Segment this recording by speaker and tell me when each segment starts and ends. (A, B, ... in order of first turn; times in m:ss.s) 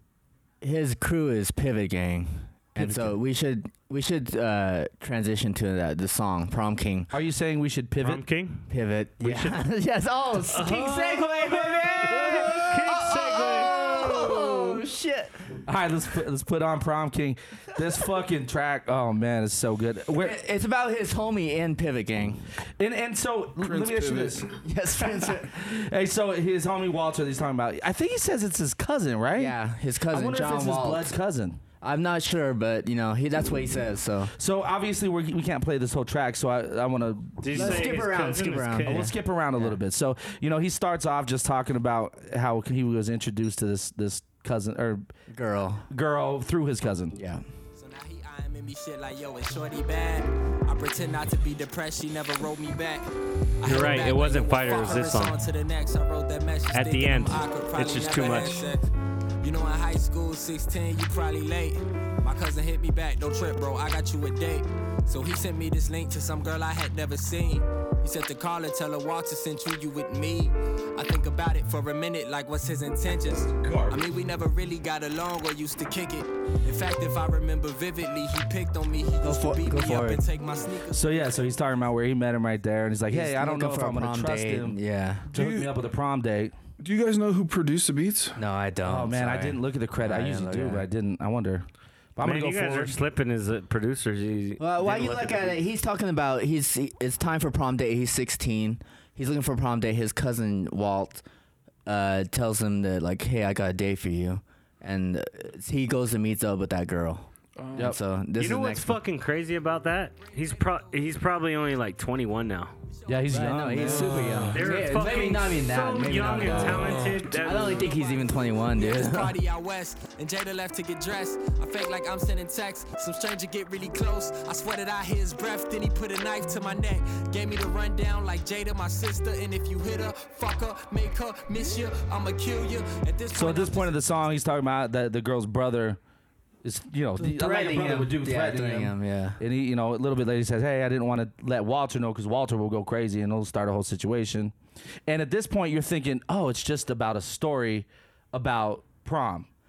0:00.6-0:07.1 A
0:02.8-0:03.2 B
0:07.1-0:08.2 B
0:08.0-0:09.6 C
0:08.7-0:15.4 A
0:10.5-0:14.0 C
0:15.7-0:20.4 B
0:20.2-0:22.5 A
0:22.8-0:24.5 B
0:23.6-0:24.5 D
0:24.6-0:25.5 A
0:25.1-0:29.6 B
0:29.4-0:31.1 A
0:30.1-0:31.6 B
0:31.8-0:34.3 A
0:34.4-0:38.1 B
0:37.4-0:39.1 C
0:37.5-0:39.8 A
0:38.8-0:45.1 B
0:45.3-0:45.9 A
0:45.9-0:47.2 B
0:47.1-0:47.4 A
0:47.7-0:53.1 E
0:53.6-0:58.9 E
0:53.6-0:55.4 C
0:56.7-0:58.7 C
0:59.4-1:21.7 E
1:19.2-1:20.2 A
1:20.9-1:24.8 B
1:23.1-1:25.3 A
1:25.3-1:25.8 D
1:25.3-1:26.5 B
1:26.8-1:28.4 D
1:28.4-1:30.9 A
1:28.8-1:33.0 B
1:32.2-1:35.5 C
1:34.6-1:41.2 A
1:41.9-1:49.0 A
1:47.6-1:48.0 D
1:48.4-1:52.7 C
1:49.4-1:51.7 E
1:52.9-1:53.3 E
1:53.1-1:55.0 B
1:53.3-1:59.4 A
1:53.7-1:54.6 D
1:54.5-1:57.9 C
1:56.4-1:56.7 B
1:56.7-1:57.2 D
1:56.9-2:14.0 E
2:13.3-2:16.0 B
2:16.6-2:24.6 B
2:17.2-2:19.4 A
2:25.1-2:29.5 B